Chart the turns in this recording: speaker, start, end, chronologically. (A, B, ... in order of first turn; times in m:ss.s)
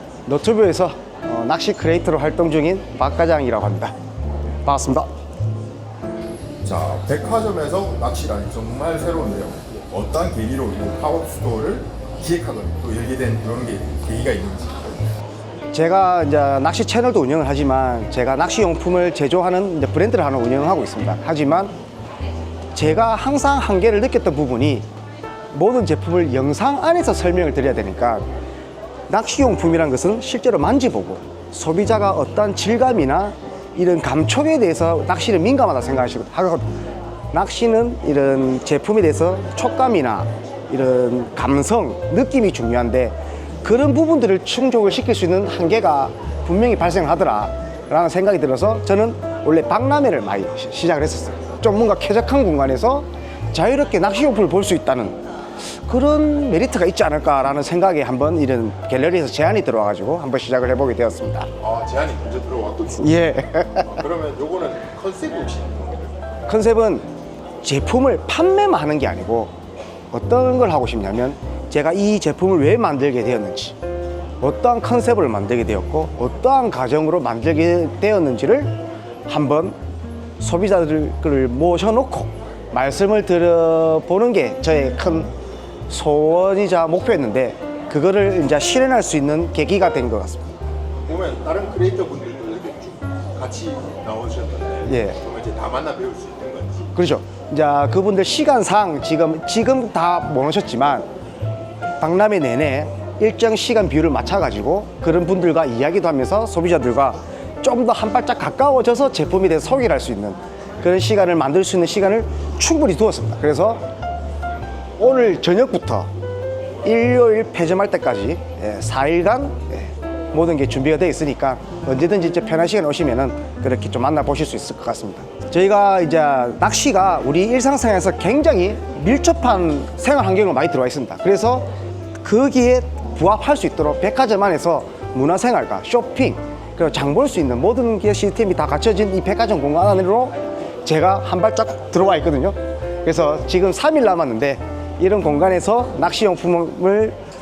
0:00.3-0:03.9 A
0:04.6-0:05.1 A
0:06.6-0:14.9 B
0:15.7-0:21.7 A
0:22.7-0:24.9 A
0:25.5-0:28.2 A
0:29.1-0:36.7 A
0:37.3-1:01.5 A
1:01.6-1:06.1 B
1:03.0-1:03.9 A
1:06.5-1:07.1 A
1:07.6-1:09.5 A
1:10.1-1:13.8 A
1:14.4-1:19.8 A
1:20.4-1:25.3 A
1:25.9-1:30.5 A
1:31.1-1:36.9 B
1:34.9-1:35.2 A
1:37.0-1:41.1 A
1:42.0-1:53.8 A
1:55.0-1:56.1 A
1:56.8-2:11.7 A
2:12.2-2:27.2 A